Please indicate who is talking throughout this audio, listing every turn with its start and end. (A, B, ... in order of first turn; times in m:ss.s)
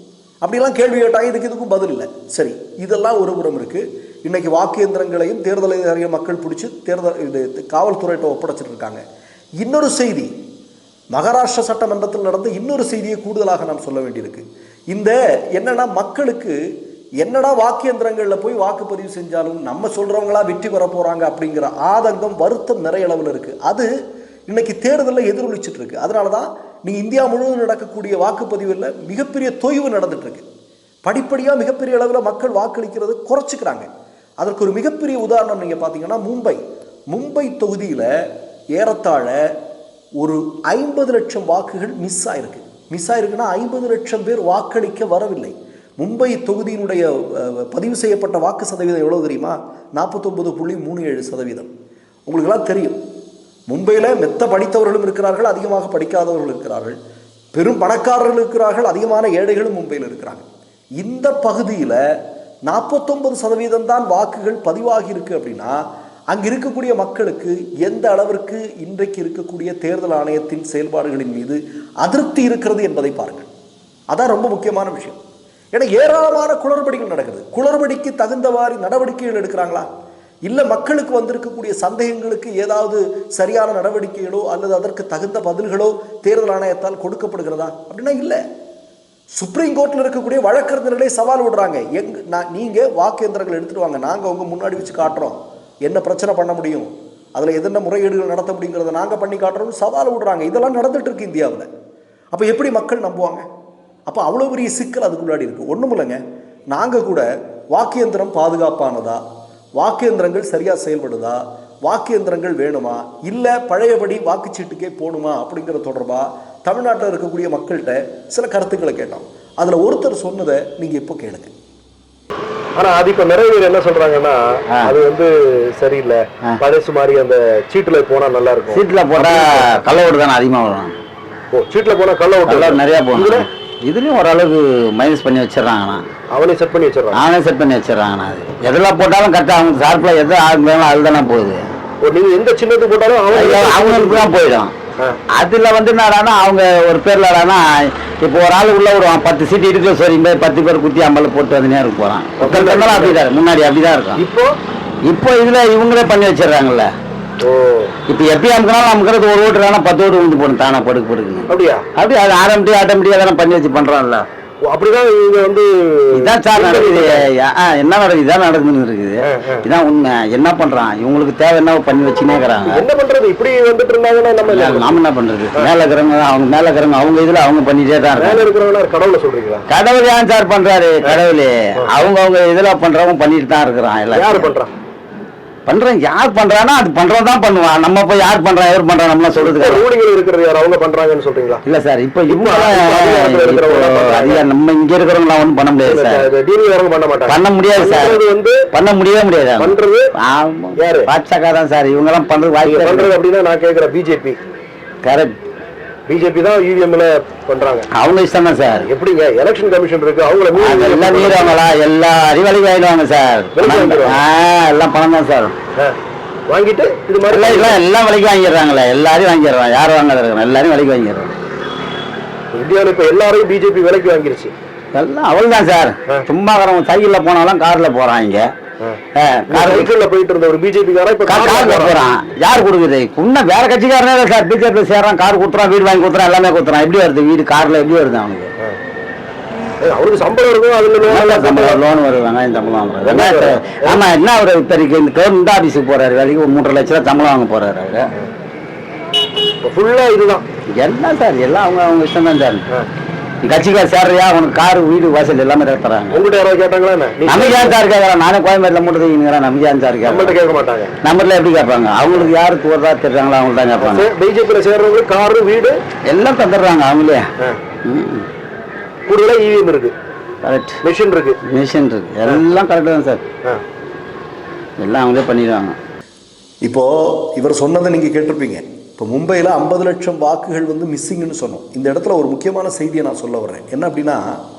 0:00.4-0:09.0 A
0:09.6-0:10.3 A
0:11.1-0:16.6 A
0:17.2-0:23.9 A
0:24.5-0:30.4 A
0:31.0-0:33.9 A
0:34.4-0:36.6 A
0:37.1-0:38.1 A
0:38.8-0:39.4 A
0:40.2-0:51.7 A
0:52.3-0:53.0 A
0:53.7-0:57.0 A
0:57.5-1:00.4 A
1:01.0-1:02.0 A
1:02.7-1:05.8 A
1:06.3-1:13.5 A
1:14.1-1:15.2 A
1:15.8-1:19.9 A
1:20.5-1:28.4 A
1:29.4-1:41.7 A
1:42.3-1:43.5 A
1:44.1-1:46.2 A
1:46.7-1:49.2 A
1:49.8-2:01.5 A
2:02.8-2:09.8 B
2:08.7-2:11.0 C
2:11.5-2:13.5 B
2:12.5-2:16.0 C
2:16.3-2:17.2 B
2:17.1-2:21.6 C
2:22.0-2:24.3 B
2:23.3-2:24.7 C
2:25.4-2:34.2 C
2:32.4-2:33.2 B
2:34.2-2:34.5 B
2:35.1-2:36.9 C
2:37.4-2:38.0 B
2:38.1-2:44.3 C
2:41.5-2:41.9 B
2:44.6-2:47.2 B
2:46.2-2:52.8 C
2:49.2-2:49.6 B
2:52.7-2:55.0 B
2:54.5-2:58.5 C
2:58.2-2:59.6 B
2:59.7-3:04.6 C
3:04.1-3:04.7 B
3:05.7-3:09.9 C
3:09.4-3:11.6 B
3:11.6-3:16.3 C
3:12.3-3:14.4 B
3:15.9-3:18.6 B
3:17.3-3:23.1 C
3:19.6-3:20.1 B
3:20.8-3:21.1 B
3:22.6-3:24.4 B
3:25.0-3:25.4 C
3:26.1-3:27.9 B
3:27.9-3:28.9 C
3:28.8-3:31.6 B
3:30.6-3:35.6 C
3:33.6-3:34.2 B
3:36.5-3:37.8 B
3:37.3-3:41.3 C
3:42.5-3:44.5 B
3:44.9-3:48.5 C
3:48.8-3:52.0 B
3:49.2-3:49.9 C
3:51.2-3:58.5 C
3:59.8-4:01.8 B
4:01.0-4:08.1 C
4:03.0-4:04.0 B
4:09.6-4:10.4 B
4:10.7-4:12.7 C
4:13.4-4:16.2 C
4:16.1-4:17.8 B
4:17.2-4:20.4 C
4:20.1-4:21.0 B
4:21.0-4:24.1 C
4:23.8-4:25.8 B
4:26.1-4:27.2 C
4:27.8-4:28.3 C
4:29.1-4:29.9 B
4:30.4-4:30.8 C
4:30.8-4:31.4 B
4:31.5-4:33.2 C
4:34.8-4:35.8 C
4:36.6-4:44.3 A